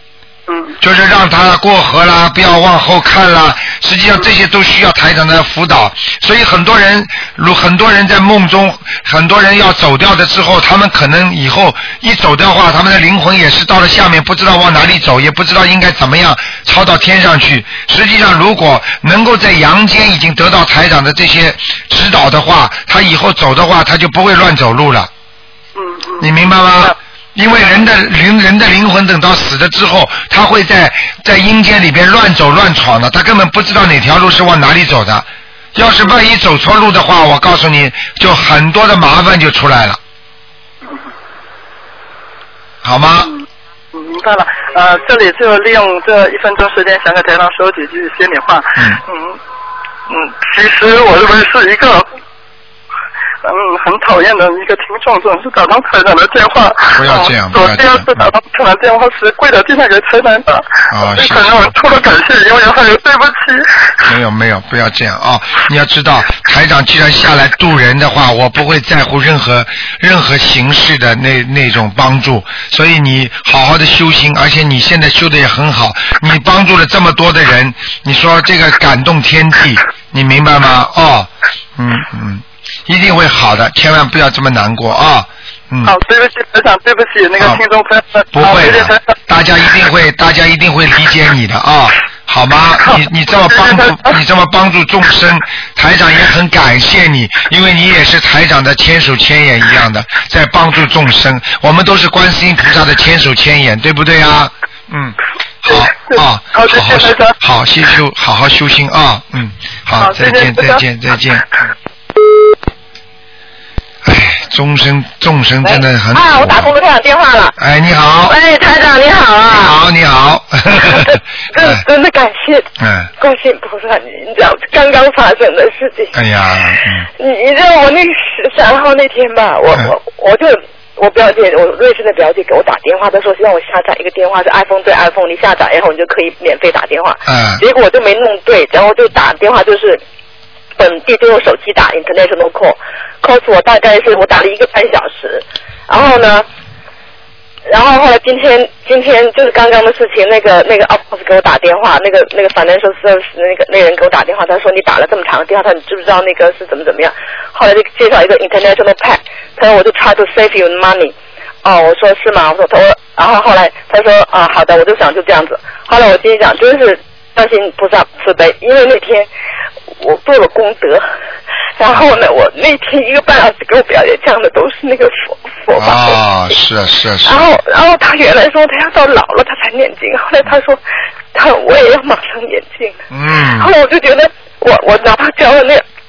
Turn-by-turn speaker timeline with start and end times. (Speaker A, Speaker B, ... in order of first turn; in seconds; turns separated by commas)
Speaker A: 0.5-0.8, Speaker B: 0.8-25.1, Speaker A: 25.8-26.9, Speaker B: 26.2-40.0, Speaker B: 42.8-43.3, Speaker A: 43.9-49.4, Speaker A: 50.1-52.1, Speaker A: 53.4-63.9, Speaker B: 56.9-58.3, Speaker B: 60.9-61.7, Speaker B: 64.1-86.0, Speaker A: 85.8-89.0, Speaker B: 88.3-111.7, Speaker A: 93.5-94.0, Speaker A: 105.7-107.3, Speaker A: 110.0-110.8, Speaker B: 114.0-116.7, Speaker C: 115.6-117.6, Speaker B: 117.6-118.4, Speaker C: 118.3-119.8, Speaker B: 119.5-121.8, Speaker C: 120.8-126.2, Speaker B: 122.8-123.1, Speaker B: 126.1-127.1, Speaker C: 127.2-140.0, Speaker B: 137.3-137.6, Speaker C: 140.8-146.5, Speaker C: 147.7-169.3, Speaker C: 170.0-171.1, Speaker C: 171.8-176.2, Speaker B: 175.8-177.4, Speaker C: 177.2-180.8, Speaker C: 181.3-183.0, Speaker B: 183.1-183.7, Speaker C: 183.6-185.8